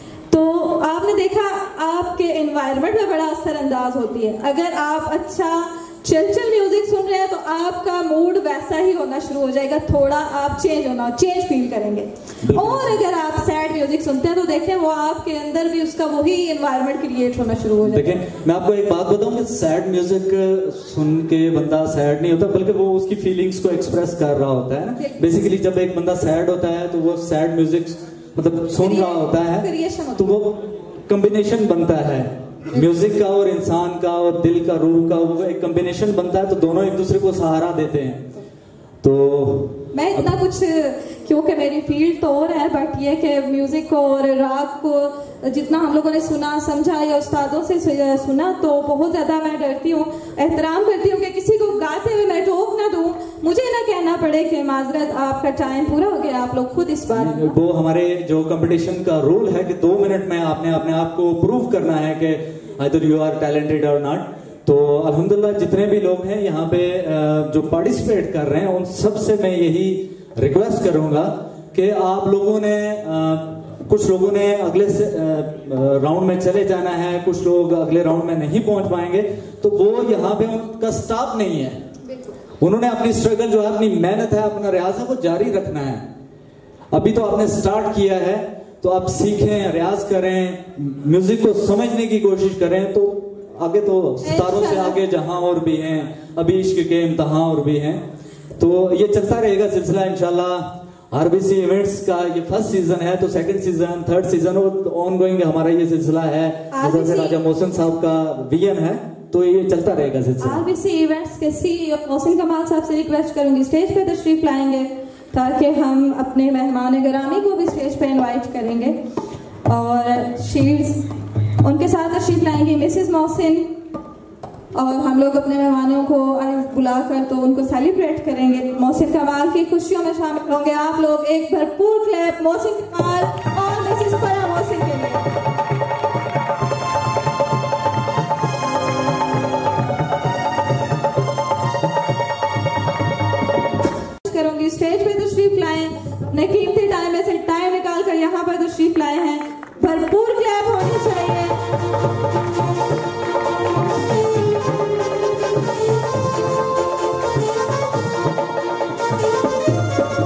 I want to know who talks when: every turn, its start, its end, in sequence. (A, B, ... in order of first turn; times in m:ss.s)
0:00.3-0:18.1 A
0:12.4-0:13.0 B
0:17.8-0:38.3 B
0:28.8-0:30.4 A
0:39.0-0:40.2 B
0:39.9-0:57.5 A
0:57.1-1:21.8 B
1:22.6-1:26.0 B
1:26.9-1:38.0 B
1:34.2-1:35.0 A
1:38.6-1:50.6 B
1:46.7-1:47.4 A
1:50.4-1:59.0 A
1:59.7-2:01.0 A
2:01.6-2:03.7 A
2:04.8-2:15.3 A
2:24.2-2:31.6 A